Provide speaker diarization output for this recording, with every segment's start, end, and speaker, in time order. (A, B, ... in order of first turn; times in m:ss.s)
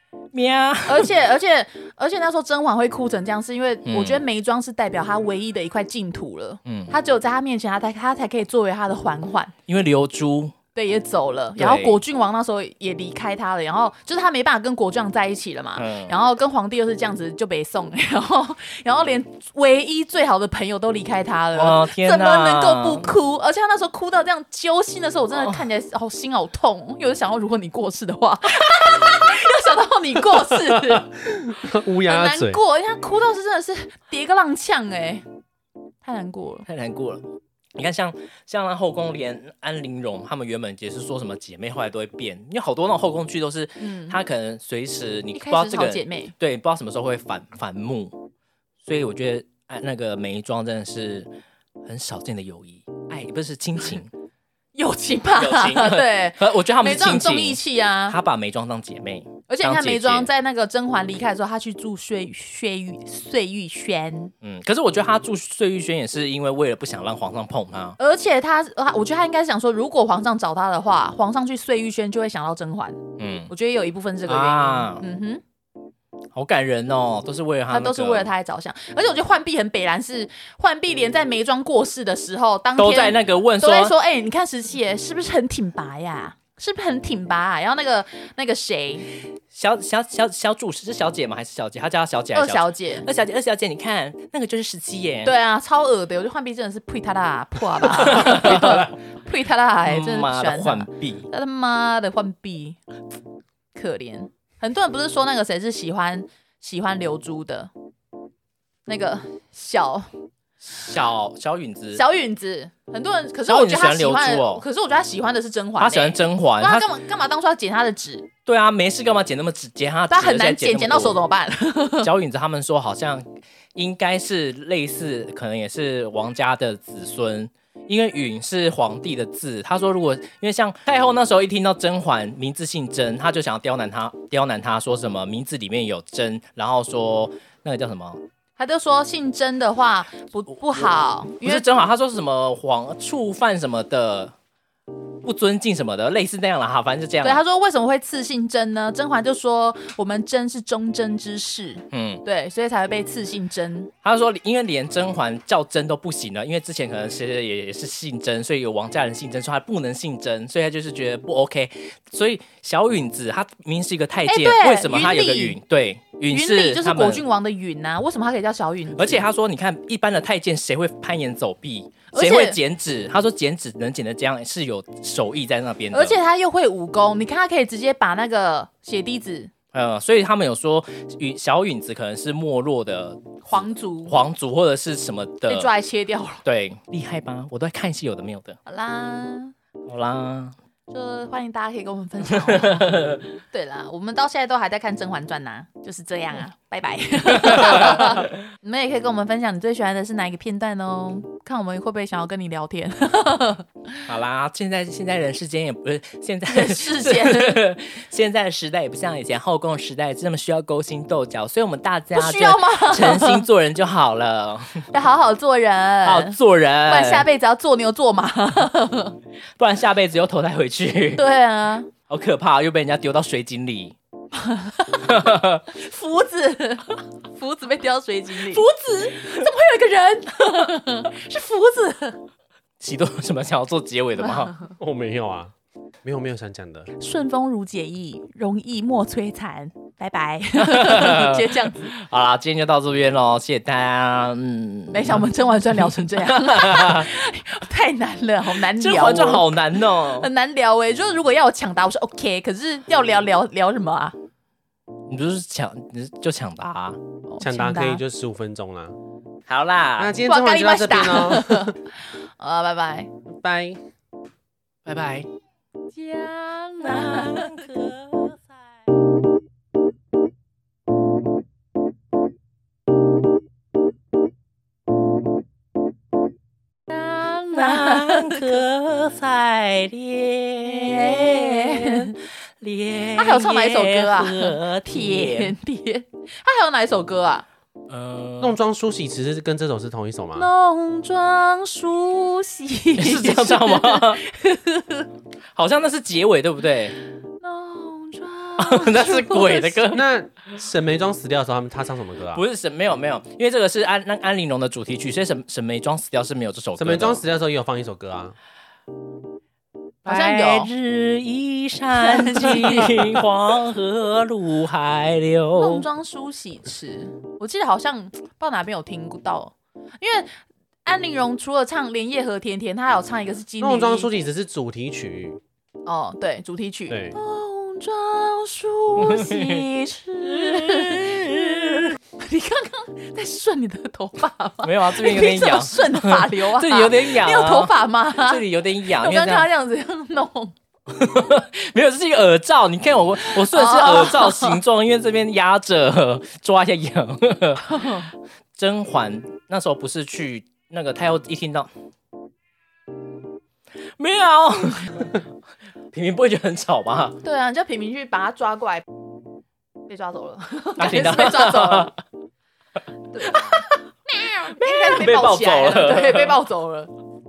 0:00.3-0:01.1 A
0:00.9-0:09.5 B
0:03.9-0:04.2 A
0:06.6-0:07.0 A
0:09.7-0:10.6 A
0:10.8-0:31.1 B
0:11.6-0:12.0 A
0:15.8-0:16.2 A
0:21.6-0:23.1 A
0:25.3-0:25.6 A
0:30.6-0:32.6 C
0:32.1-0:35.3 B
0:36.0-0:36.7 B
0:36.7-0:48.2 A
0:43.8-0:44.2 B
0:45.4-0:46.3 B
0:48.8-0:51.3 A
0:51.8-0:54.1 A
0:54.8-0:58.2 B
0:55.4-1:00.3 A
0:59.5-1:04.3 B
1:04.4-1:08.0 A
1:08.0-1:15.4 B
1:13.2-1:13.5 A
1:14.3-1:15.0 A
1:16.3-1:18.3 A
1:17.7-1:29.1 B
1:22.8-1:24.0 A
1:29.5-1:35.3 A
1:32.3-1:33.1 B
1:35.2-1:42.8 B
1:37.8-1:38.9 A
1:39.8-1:41.3 A
1:43.8-1:47.7 B
1:48.9-1:50.1 B
1:50.6-1:52.0 A
1:51.9-1:58.3 B
1:53.5-1:54.6 A
1:55.8-1:56.9 A
1:58.5-2:01.2 A
2:00.1-2:02.1 B
2:02.0-2:18.2 A
2:18.6-2:21.6 B
2:21.4-2:24.3 A
2:25.2-2:27.4 A
2:27.2-2:33.9 B
2:31.9-2:32.2 A
2:34.0-2:47.2 A
2:44.3-2:45.6 B
2:46.3-2:49.2 B
2:49.0-2:56.2 A
2:52.1-2:52.6 B
2:55.9-2:59.5 B
2:59.7-3:05.7 A
3:03.5-3:04.2 B
3:05.5-3:06.4 B
3:06.4-3:08.6 A
3:08.7-3:09.5 B
3:09.9-3:10.6 A
3:10.9-3:24.0 B
3:12.3-3:13.2 A
3:17.3-3:18.3 A
3:24.0-3:34.9 A
3:26.5-3:27.6 B
3:32.1-3:33.4 B
3:34.9-3:39.2 B
3:36.0-3:37.3 A
3:39.6-3:41.2 A
3:41.2-3:41.9 B
3:42.1-3:44.0 A
3:44.3-3:52.2 B
3:45.1-3:45.6 A
3:48.5-3:49.5 A
3:52.8-3:54.6 A
3:54.7-3:56.9 C
3:57.0-4:01.9 B
4:00.6-4:05.3 A
4:04.9-4:14.2 B
4:05.8-4:07.1 A
4:08.5-4:10.3 A
4:15.1-4:17.0 A
4:17.3-4:18.0 B
4:17.4-4:19.0 C
4:19.5-4:20.2 A
4:20.0-4:21.8 C
4:20.2-4:23.1 B
4:23.3-4:23.8 C
4:24.9-4:25.3 A
4:25.9-4:27.7 B
4:26.8-4:28.4 A
4:36.9-4:38.6 B
4:37.5-4:45.6 A
4:40.6-4:42.2 B
4:43.2-4:47.4 B
4:47.9-4:48.6 A
4:48.4-4:50.5 C
4:50.4-4:55.1 B
4:53.0-4:54.2 A
4:55.6-4:57.0 A
4:57.4-4:59.9 B
4:58.6-5:00.0 A
4:59.9-5:02.4 C
5:02.3-5:07.2 A
5:06.8-5:08.4 C
5:10.0-5:15.9 A
5:10.1-5:10.7 B
5:12.0-5:13.2 B
5:15.6-5:24.1 B
5:23.6-5:25.4 C
5:25.9-5:31.5 B
5:26.9-5:27.2 C
5:29.0-5:29.7 A
5:30.2-5:32.0 A
5:32.2-5:40.6 B
5:34.6-5:39.5 A
5:40.9-5:51.7 A
5:43.2-5:44.6 B
5:47.7-5:48.1 B
5:54.0-5:55.2 A
5:55.9-5:57.2 A
5:57.2-5:58.9 B
5:59.9-6:01.9 B
6:00.8-6:01.9 A
6:03.1-6:06.9 B
6:03.2-6:03.6 A
6:04.5-6:06.4 A